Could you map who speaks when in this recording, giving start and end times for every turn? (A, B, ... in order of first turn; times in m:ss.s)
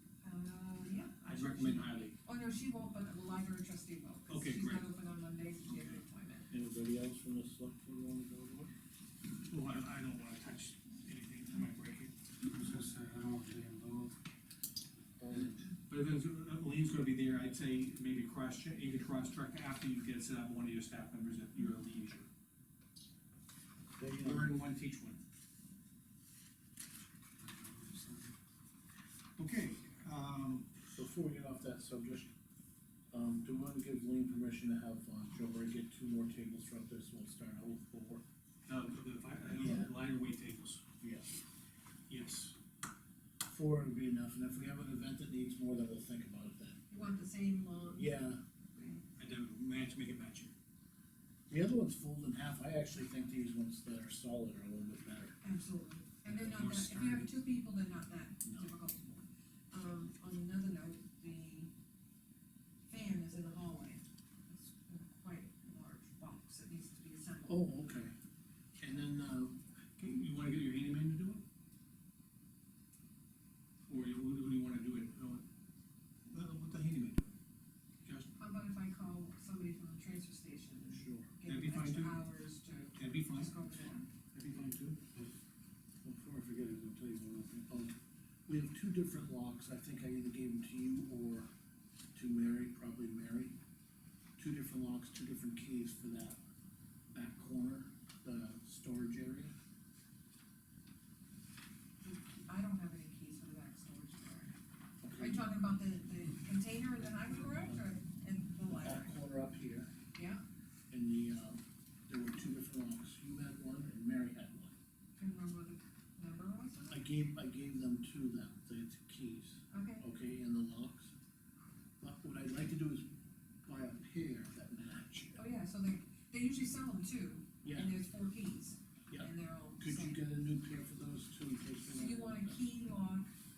0:00.2-0:06.5 A
0:01.2-0:02.1 B
0:04.3-0:04.8 B
0:05.7-0:06.0 B
0:06.5-0:08.7 C
0:09.5-0:12.2 B
0:12.5-0:14.2 D
0:15.2-0:15.6 C
0:15.9-0:22.2 B
0:24.0-0:24.5 C
0:24.2-0:25.2 B
0:27.4-0:28.3 D
0:29.4-0:30.7 B
0:31.0-0:32.3 C
0:33.1-0:38.2 C
0:38.7-0:40.9 B
0:39.5-0:39.9 C
0:41.0-0:41.3 C
0:42.1-0:42.6 B
0:43.5-0:46.8 C
0:46.9-0:48.2 A
0:47.9-0:48.4 C
0:48.7-0:49.0 A
0:49.2-0:50.5 B
0:51.5-0:55.4 C
0:55.4-1:01.7 A
0:56.3-0:57.3 B
1:02.9-1:07.6 A
1:07.4-1:08.1 C
1:08.8-1:09.6 C
1:10.0-1:11.4 B
1:13.9-1:15.4 B
1:16.3-1:17.4 B
1:18.0-1:18.3 B
1:18.3-1:24.1 A
1:20.9-1:21.3 C
1:21.5-1:22.2 B
1:23.0-1:25.0 B
1:26.0-1:27.9 C
1:28.5-1:31.5 C
1:32.2-1:33.5 C
1:34.4-1:36.4 C
1:37.1-1:39.5 C
1:42.0-1:44.5 A
1:45.0-1:45.4 C
1:45.2-1:49.2 A
1:48.8-1:49.9 C
1:50.2-1:50.4 A
1:50.9-1:54.7 C
1:55.2-1:57.0 A
1:56.9-2:01.1 C
1:59.7-2:00.0 A
2:02.0-2:03.1 C
2:03.7-2:05.4 C
2:05.3-2:10.2 A
2:07.6-2:08.0 C
2:09.1-2:12.6 C
2:11.9-2:13.3 A